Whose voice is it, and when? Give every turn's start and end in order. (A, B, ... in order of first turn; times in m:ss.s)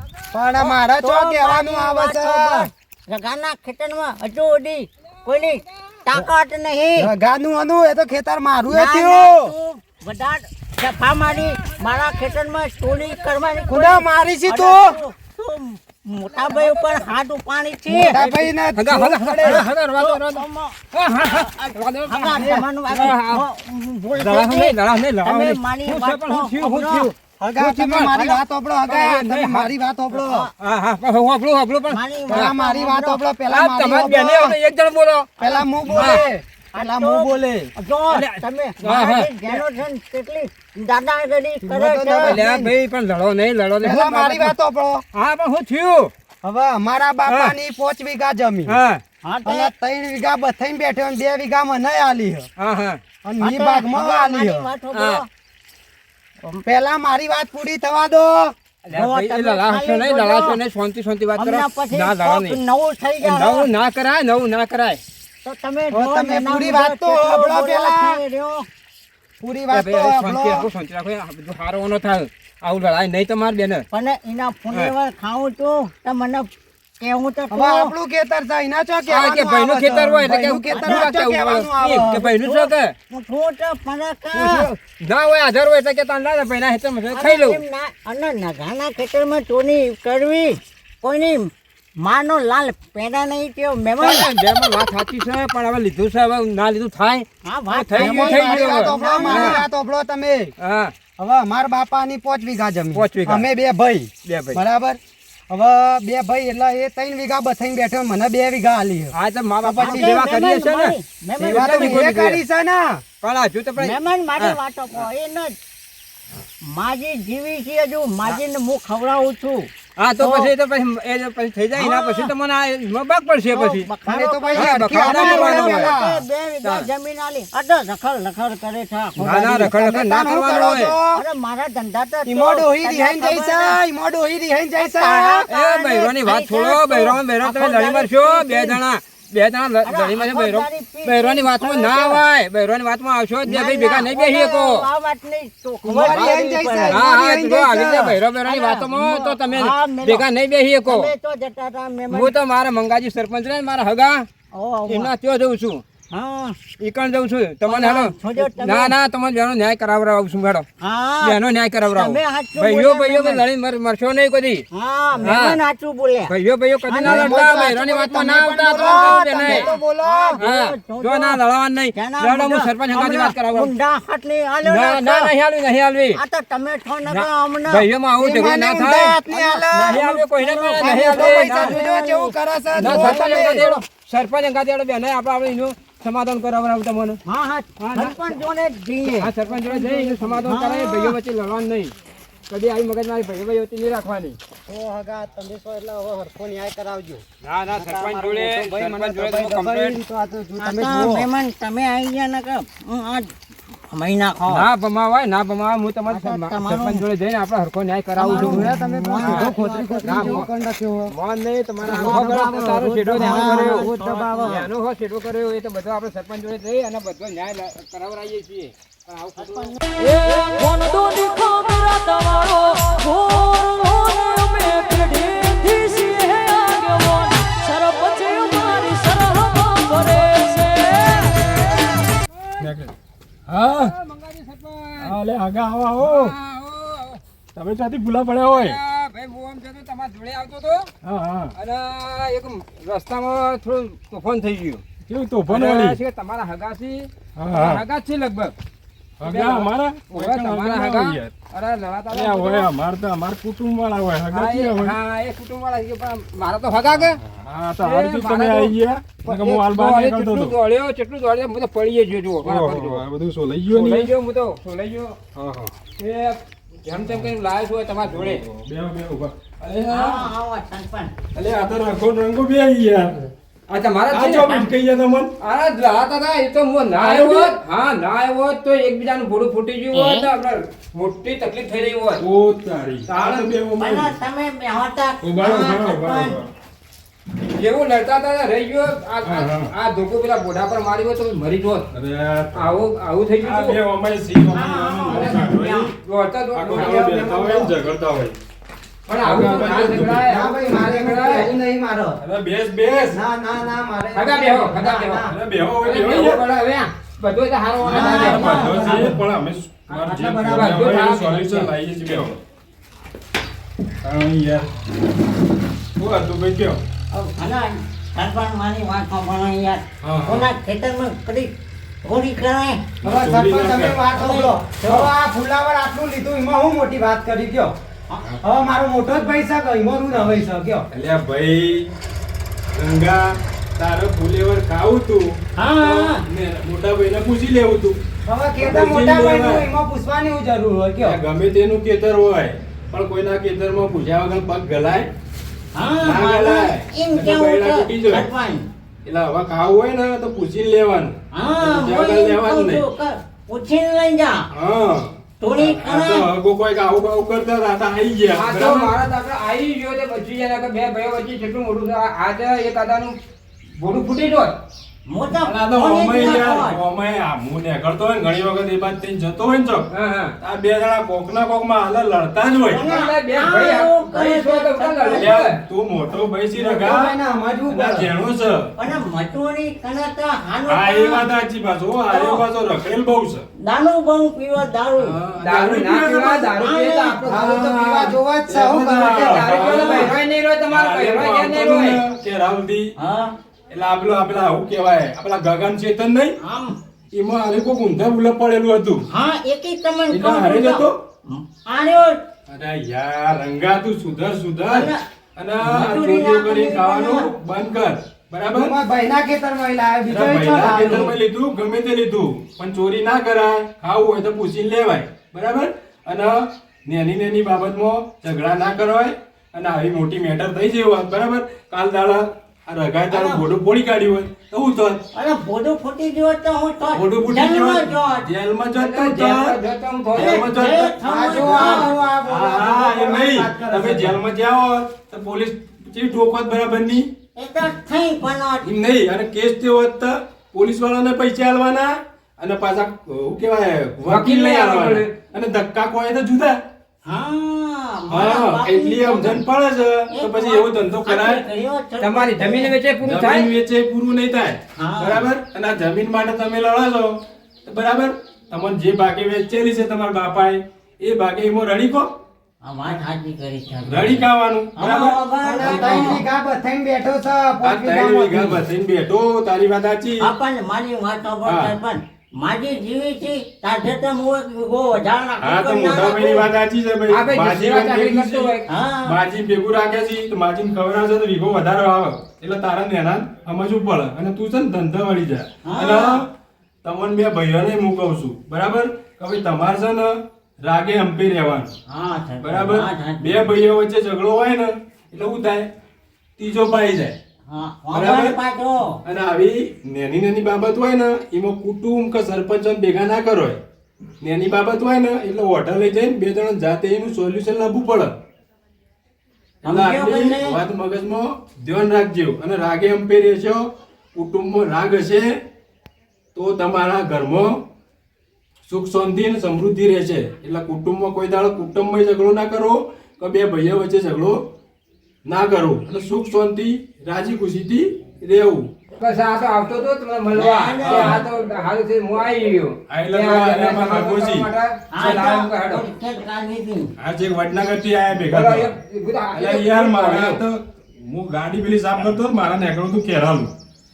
0:00.3-0:02.7 A
0:01.0-0:07.1 B
0:07.0-0:09.5 A
0:08.7-0:18.2 B
0:13.7-0:15.0 A
0:16.4-0:17.0 C
0:17.9-0:19.6 A
0:18.1-0:23.4 C
0:20.0-0:27.1 B
0:22.4-0:22.7 A
0:24.2-0:29.7 C
0:27.4-0:30.5 A
0:30.1-0:30.5 B
0:30.6-0:32.5 C
0:31.9-0:33.2 B
0:32.3-0:34.6 A
0:33.5-0:35.3 C
0:35.4-0:42.4 B
0:35.4-0:37.7 A
0:35.9-0:36.2 C
0:38.1-0:39.3 C
0:41.6-0:42.7 A
0:42.2-0:44.5 C
0:43.8-0:45.0 A
0:45.1-0:46.1 C
0:46.4-0:48.7 A
0:47.3-0:47.6 C
0:48.7-0:49.0 C
0:49.2-0:49.7 B
0:49.4-0:52.5 A
0:52.6-0:53.0 C
0:53.2-0:54.7 A
0:53.4-0:55.3 B
0:54.9-0:55.2 C
0:56.7-0:58.6 A
0:58.9-1:02.6 C
0:58.9-1:00.6 B
1:01.4-1:03.7 B
1:03.2-1:05.0 C
1:05.4-1:08.7 B
1:05.9-1:08.2 A
1:09.4-1:10.7 A
1:09.7-1:13.9 C
1:13.9-1:16.5 B
1:17.0-1:17.9 B
1:17.5-1:22.3 A
1:19.1-1:22.9 C
1:20.7-1:21.1 B
1:22.4-1:24.7 B
1:24.3-1:27.6 C
1:27.1-1:34.3 B
1:34.0-1:39.6 C
1:37.4-1:39.6 B
1:38.0-1:40.5 A
1:40.6-1:40.9 C
1:41.2-1:45.0 A
1:42.9-1:43.5 C
1:44.2-1:44.6 C
1:45.5-1:50.2 A
1:49.1-1:52.4 C
1:49.8-1:52.1 B
1:51.4-1:53.0 A
1:53.2-1:54.6 C
1:53.8-1:55.5 B
1:56.7-2:00.5 B
2:00.0-2:03.9 C
2:01.8-2:02.3 B
2:03.5-2:09.6 B
2:04.1-2:06.2 A
2:04.6-2:05.9 C
2:09.2-2:11.0 C
2:09.7-2:11.2 A
2:11.1-2:13.8 B
2:12.3-2:15.5 A
2:14.8-2:18.8 B
2:15.5-2:24.9 C
2:19.9-2:22.2 B
2:23.4-2:27.0 B
2:25.8-2:28.2 A
2:26.9-2:31.1 C
2:28.5-2:30.3 B
2:30.9-2:32.3 B
2:32.1-2:34.3 C
2:34.5-2:35.1 B
2:34.9-2:35.8 C
2:36.1-2:36.6 B
2:36.8-2:40.6 C
2:37.7-2:39.0 B
2:40.8-2:41.4 B
2:41.2-2:44.6 C
2:41.9-2:43.4 B
2:44.7-2:46.3 B
2:45.2-2:45.6 C
2:46.3-2:49.6 C
2:46.9-2:47.5 B
2:47.0-2:50.4 A
2:48.8-2:51.4 B
2:50.4-2:53.7 C
2:51.9-2:55.3 B
2:54.6-2:56.2 C
2:56.2-2:57.8 B
2:57.1-2:59.2 C
2:58.2-3:00.0 A
2:59.3-3:03.8 B
2:59.7-3:01.8 C
3:00.6-3:03.7 A
3:02.8-3:07.2 C
3:07.3-3:09.3 B
3:07.8-3:08.4 C
3:09.0-3:12.0 C
3:09.6-3:10.0 A
3:10.4-3:11.2 B
3:12.5-3:14.4 C
3:14.7-3:17.2 A
3:17.4-3:20.0 C
3:17.8-3:21.3 A
3:20.6-3:24.7 B
3:24.5-3:28.7 C
3:26.1-3:27.0 B
3:28.2-3:30.5 B
3:28.3-3:31.1 A
3:29.2-3:29.5 C
3:30.1-3:30.5 C
3:31.1-3:33.9 C
3:31.8-3:34.6 A
3:31.8-3:32.3 B
3:33.1-3:34.7 B
3:34.4-3:39.7 C
3:39.4-3:41.1 B
3:40.4-3:40.8 C
3:40.7-3:51.1 D
3:49.3-3:51.2 C
3:52.6-3:52.9 E
3:53.5-3:53.9 E
3:53.8-3:55.2 C
3:55.0-3:56.4 E
3:56.0-3:57.2 C
3:57.6-3:58.8 E
3:58.5-4:00.9 C
4:01.0-4:01.5 E
4:01.6-4:04.8 C
4:05.1-4:06.0 E
4:05.5-4:08.5 C
4:07.4-4:07.8 E
4:09.2-4:11.4 E
4:09.2-4:12.7 C
4:12.1-4:15.0 E
4:14.3-4:17.2 C
4:16.8-4:20.6 E
4:17.8-4:23.0 C
4:22.4-4:24.1 E
4:23.7-4:25.2 C
4:25.4-4:25.7 E
4:25.8-4:28.4 C
4:28.0-4:30.3 E
4:29.9-4:31.1 B
4:31.3-4:33.2 E
4:33.7-4:34.7 C
4:34.1-4:35.3 E
4:35.4-4:42.2 C
4:37.0-4:37.5 E
4:39.9-4:40.3 B
4:42.2-4:44.2 E
4:43.1-4:43.5 C
4:43.8-4:46.4 B
4:45.2-4:46.5 E
4:47.6-4:51.9 C
4:49.2-4:49.7 E
4:51.9-4:52.7 E
4:52.6-4:53.8 C
4:53.4-4:55.9 E
4:54.5-4:55.9 B
4:55.1-4:57.0 C
4:56.5-4:58.4 E
4:56.7-4:57.7 A
4:59.1-5:01.5 C
4:59.2-5:00.3 E
5:00.0-5:02.2 A
5:02.2-5:03.2 E
5:03.1-5:05.3 A
5:04.1-5:05.2 C
5:05.3-5:06.4 E
5:05.8-5:08.5 C
5:07.8-5:09.2 A
5:07.8-5:12.4 E
5:08.2-5:09.0 B
5:09.9-5:10.8 A
5:10.5-5:11.7 C
5:14.0-5:14.7 E
5:16.0-5:16.8 E
5:17.1-5:21.5 B
5:20.0-5:20.5 E
5:22.0-5:22.8 B
5:23.0-5:24.0 E
5:23.0-5:27.7 A
5:24.1-5:25.1 B
5:28.4-5:30.9 A
5:30.9-5:31.9 E
5:32.7-5:33.2 E
5:33.8-5:38.0 E
5:35.6-5:36.2 B
5:38.3-5:41.2 A
5:38.6-5:39.7 E
5:41.0-5:45.1 E
5:45.8-5:48.6 B
5:46.0-5:48.3 E
5:49.0-5:52.8 E
5:51.3-5:54.5 B
5:54.5-5:58.9 E
5:55.4-5:56.3 B
5:58.3-6:03.1 C
6:03.8-6:04.5 C
6:05.1-6:06.8 B
6:05.4-6:09.9 E
6:09.9-6:10.3 C
6:10.4-6:12.9 E
6:12.7-6:15.4 B
6:12.8-6:15.6 C
6:15.1-6:17.2 E
6:16.5-6:18.1 A
6:17.7-6:18.7 E
6:18.8-6:21.3 B
6:20.7-6:23.4 E
6:22.1-6:22.4 B
6:23.6-6:25.2 B
6:25.0-6:26.6 E
6:25.4-6:27.5 C
6:26.6-6:27.2 B
6:27.2-6:30.1 A
6:27.4-6:30.1 E
6:29.0-6:32.0 C
6:30.7-6:32.9 E
6:33.0-6:33.3 B
6:33.7-6:36.4 E
6:36.4-6:36.8 B
6:37.1-6:39.0 E
6:39.1-6:42.2 B
6:40.1-6:41.0 E
6:42.5-6:48.7 E
6:44.7-6:45.0 B
6:45.6-6:47.3 B
6:48.5-6:51.1 A
6:50.1-7:05.0 E
7:03.1-7:03.4 B
7:05.1-7:08.3 B
7:06.9-7:09.6 E
7:08.8-7:10.4 C
7:10.1-7:17.0 E
7:10.2-7:11.9 B
7:11.0-7:14.2 A
7:17.4-7:18.7 B
7:18.6-7:26.6 E
7:24.1-7:25.1 C
7:27.1-7:29.4 B
7:28.1-7:31.4 E
7:30.1-7:32.7 B
7:32.0-7:33.5 C
7:33.0-7:37.1 E
7:34.8-7:35.3 B
7:37.6-7:42.1 E
7:42.6-7:44.2 B
7:43.9-7:45.2 E
7:44.8-7:46.2 B
7:45.4-7:48.6 A
7:47.6-7:50.3 E
7:50.2-7:56.5 B
7:51.5-7:51.8 E
7:55.4-8:06.3 E
7:57.1-7:58.7 C
7:58.7-7:59.2 B
8:05.6-8:06.2 B
8:06.8-8:10.1 E
8:10.6-8:11.7 E
8:11.9-8:13.4 B
8:12.4-8:15.7 E
8:16.4-8:17.2 E
8:17.5-8:19.0 B
8:17.9-8:18.4 E
8:19.0-8:23.6 E
8:24.2-8:28.1 E
8:29.6-8:30.6 B
8:29.7-8:35.3 E
8:36.4-8:37.5 E
8:38.7-8:44.4 E
8:45.3-8:48.7 E
8:49.0-8:55.8 C
8:50.3-8:51.3 B
8:50.8-8:51.2 E
8:52.9-8:54.5 E
8:54.9-8:56.9 B
8:57.0-8:58.7 E
8:58.3-9:00.4 C
8:59.3-9:03.5 E